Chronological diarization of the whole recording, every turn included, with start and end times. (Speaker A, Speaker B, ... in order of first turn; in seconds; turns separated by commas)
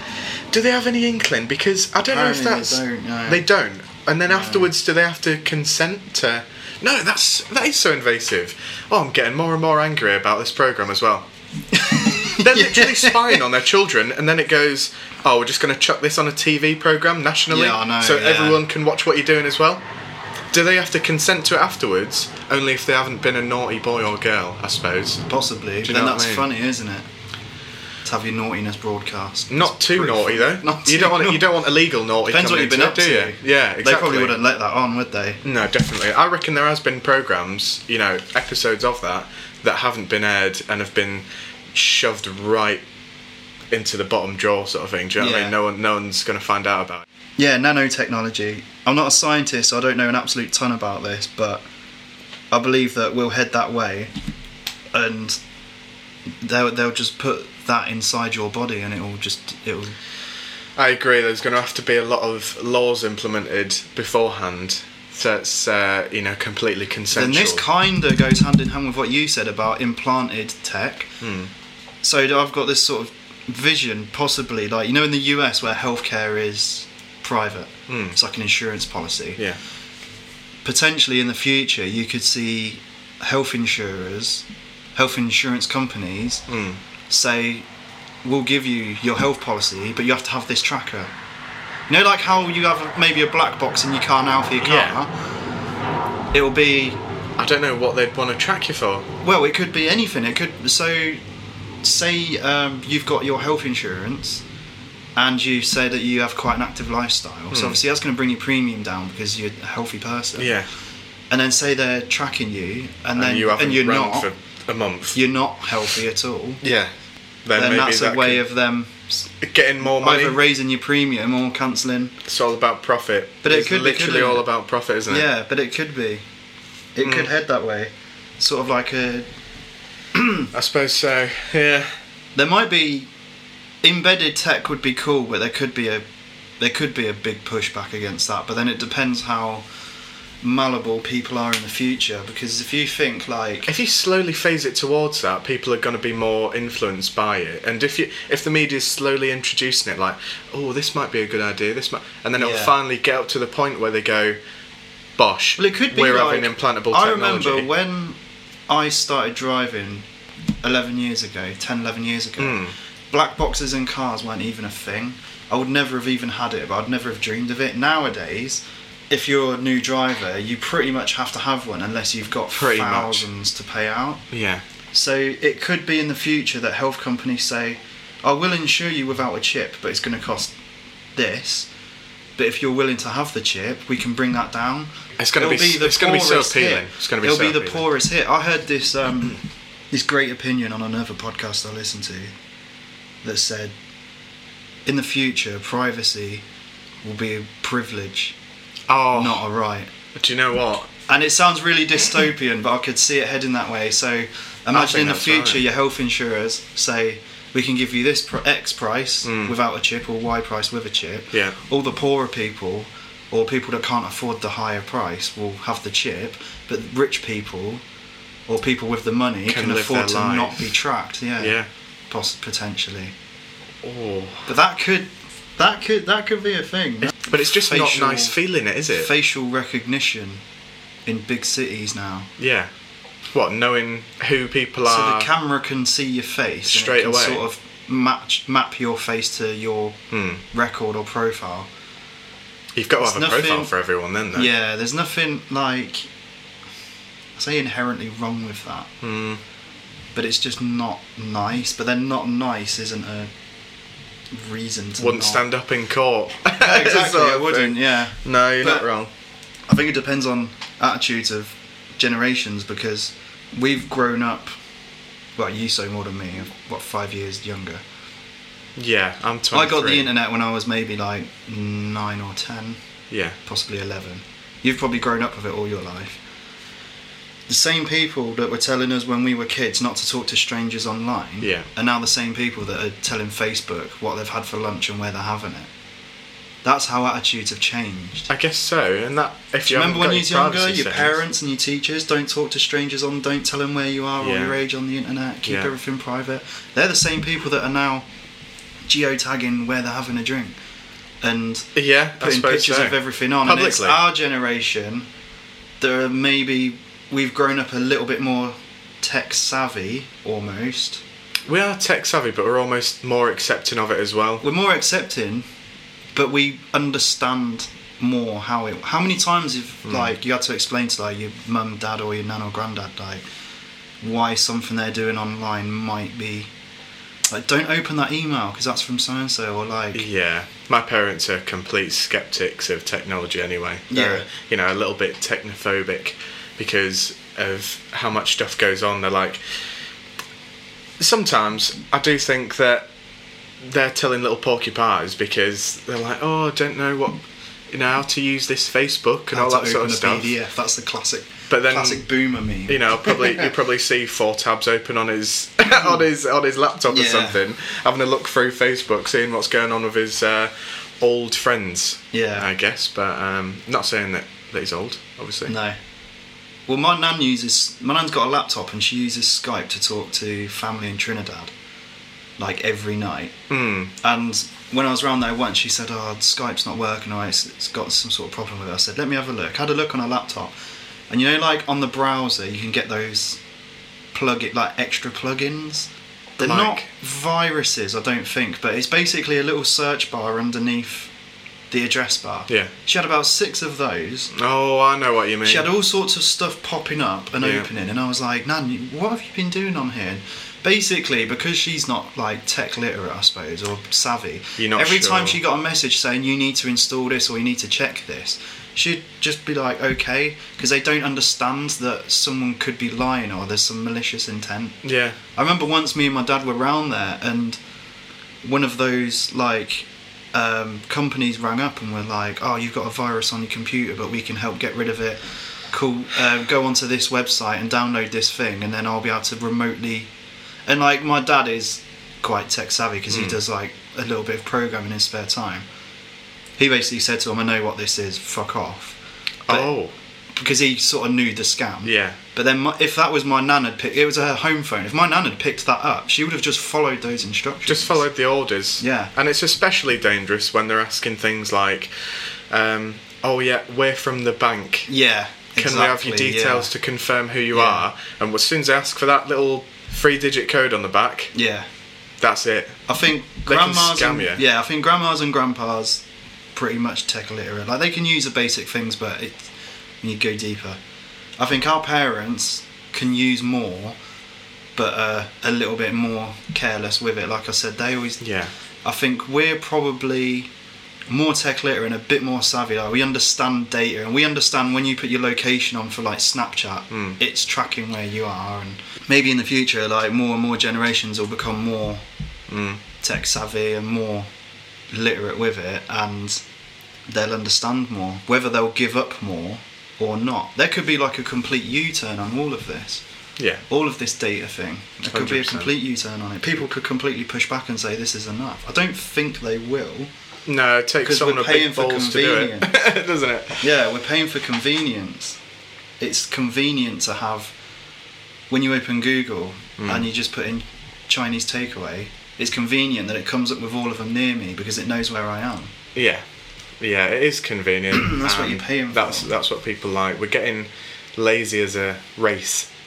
Speaker A: 0.5-11.3, Speaker B: 2.0-3.5, Speaker B: 4.3-4.7, Speaker B: 11.7-13.4, Speaker A: 12.0-19.8, Speaker B: 17.5-18.6, Speaker A: 20.5-25.2, Speaker B: 25.3-27.1, Speaker A: 25.8-26.5, Speaker B: 28.0-31.5, Speaker A: 29.5-34.4, Speaker B: 32.3-35.4, Speaker A: 35.4-42.8, Speaker A: 43.7-47.0, Speaker B: 45.2-45.5, Speaker B: 47.4-51.6, Speaker B: 52.5-54.1, Speaker B: 54.9-55.4, Speaker B: 56.4-60.0, Speaker A: 60.8-67.7, Speaker B: 67.1-71.1, Speaker A: 71.2-71.5, Speaker B: 72.0-79.4, Speaker A: 77.9-78.2, Speaker B: 80.7-84.5, Speaker B: 85.0-86.5, Speaker A: 86.5-86.8, Speaker B: 87.1-87.7, Speaker B: 88.2-91.1, Speaker B: 91.9-95.1, Speaker A: 94.6-95.0, Speaker B: 96.3-97.0, Speaker A: 97.4-99.1, Speaker B: 99.2-101.2, Speaker B: 101.8-104.4, Speaker B: 105.2-110.5, Speaker A: 107.5-107.8, Speaker A: 110.4-110.7, Speaker B: 111.3-114.3, Speaker A: 113.2-115.2, Speaker B: 115.1-116.6, Speaker A: 116.6-116.9, Speaker A: 117.5-118.4, Speaker B: 117.5-119.3, Speaker A: 119.4-120.4, Speaker B: 119.8-122.2, Speaker A: 122.3-125.3, Speaker B: 123.4-124.5, Speaker B: 125.1-126.2, Speaker B: 127.0-129.3, Speaker A: 127.0-127.3, Speaker B: 130.1-130.5, Speaker A: 130.5-131.9, Speaker B: 132.3-133.1, Speaker B: 133.8-136.0, Speaker B: 136.6-139.6, Speaker B: 140.4-143.7, Speaker A: 143.7-154.4, Speaker B: 152.4-152.8, Speaker A: 155.2-157.7, Speaker B: 155.6-158.2, Speaker B: 158.7-160.1, Speaker B: 160.6-174.2, Speaker A: 162.4-162.7, Speaker A: 172.6-173.3, Speaker A: 174.3-174.6, Speaker B: 174.9-180.5, Speaker B: 181.2-181.7, Speaker B: 182.4-192.3, Speaker A: 185.2-187.9, Speaker B: 193.2-193.7, Speaker B: 194.9-196.4, Speaker B: 197.0-198.3, Speaker A: 198.9-199.5, Speaker B: 199.1-199.9, Speaker A: 200.2-200.9, Speaker B: 201.1-217.8, Speaker A: 204.7-205.6, Speaker A: 209.2-209.6, Speaker B: 218.5-221.6, Speaker A: 219.5-220.8, Speaker A: 221.4-221.7, Speaker B: 222.1-223.1, Speaker A: 223.8-224.5, Speaker B: 224.5-228.4, Speaker A: 227.1-229.1, Speaker B: 228.9-230.4, Speaker B: 231.1-232.3, Speaker A: 232.4-232.7, Speaker A: 233.3-235.3, Speaker B: 234.8-240.0, Speaker A: 236.7-237.4, Speaker A: 240.1-240.4, Speaker B: 240.5-241.7, Speaker A: 242.8-244.5, Speaker B: 243.0-243.7, Speaker B: 244.3-246.1, Speaker B: 247.4-248.9, Speaker A: 249.0-249.4, Speaker B: 250.2-253.3, Speaker B: 254.3-255.4, Speaker A: 255.0-259.1, Speaker B: 256.6-258.9, Speaker B: 259.7-264.5, Speaker B: 265.4-267.8, Speaker A: 268.8-270.1, Speaker B: 269.5-272.8, Speaker A: 273.1-273.4, Speaker B: 273.4-276.2, Speaker B: 277.5-285.7, Speaker A: 281.4-281.7, Speaker B: 286.6-288.3, Speaker A: 288.3-291.2, Speaker B: 289.7-298.1, Speaker A: 294.2-294.6, Speaker A: 295.5-295.7, Speaker B: 298.9-300.6, Speaker B: 301.2-305.1, Speaker A: 301.8-304.0, Speaker B: 305.8-311.0, Speaker A: 311.5-314.4, Speaker B: 314.4-315.5, Speaker B: 316.1-323.2, Speaker A: 319.9-320.1, Speaker B: 324.0-326.5, Speaker B: 327.3-330.1, Speaker A: 329.9-339.4, Speaker B: 333.9-334.3, Speaker A: 341.0-342.9, Speaker A: 343.6-350.4, Speaker B: 349.3-353.5, Speaker A: 351.5-352.1, Speaker A: 352.7-365.5, Speaker B: 356.9-357.4, Speaker B: 362.1-362.5, Speaker B: 365.5-365.8, Speaker B: 366.7-371.5, Speaker B: 372.4-373.4, Speaker A: 373.5-373.9, Speaker B: 374.0-380.5, Speaker B: 381.1-383.4, Speaker B: 384.1-391.1, Speaker A: 386.4-386.9, Speaker B: 391.7-394.3, Speaker A: 394.3-395.7, Speaker B: 395.4-414.8, Speaker A: 397.4-397.7, Speaker A: 404.6-405.4, Speaker A: 414.8-415.2, Speaker B: 415.4-417.6, Speaker B: 418.4-430.1, Speaker B: 430.7-435.7, Speaker A: 433.1-433.4, Speaker B: 436.6-439.7, Speaker A: 439.5-439.9, Speaker B: 440.4-448.0, Speaker A: 441.8-442.2, Speaker A: 447.7-454.9, Speaker B: 448.8-449.1, Speaker B: 454.9-456.7, Speaker A: 455.6-461.3, Speaker B: 457.5-457.8, Speaker B: 461.3-461.7, Speaker A: 462.2-462.8, Speaker B: 462.9-466.0, Speaker A: 463.5-464.4, Speaker B: 466.6-469.5, Speaker B: 470.0-470.8, Speaker B: 471.4-474.0, Speaker B: 474.8-478.2, Speaker A: 478.2-478.5, Speaker B: 478.8-480.5, Speaker B: 481.1-492.0, Speaker A: 486.9-487.2, Speaker A: 492.5-492.8, Speaker B: 493.0-494.3, Speaker B: 494.9-496.4, Speaker B: 497.1-503.0, Speaker A: 503.4-503.6, Speaker B: 503.7-510.1, Speaker A: 505.1-505.7, Speaker A: 510.5-513.6, Speaker B: 511.0-512.7, Speaker B: 513.6-515.4, Speaker B: 516.0-517.5, Speaker B: 518.5-525.7, Speaker A: 519.8-520.1, Speaker A: 526.0-526.2, Speaker A: 526.8-532.7, Speaker B: 527.9-529.3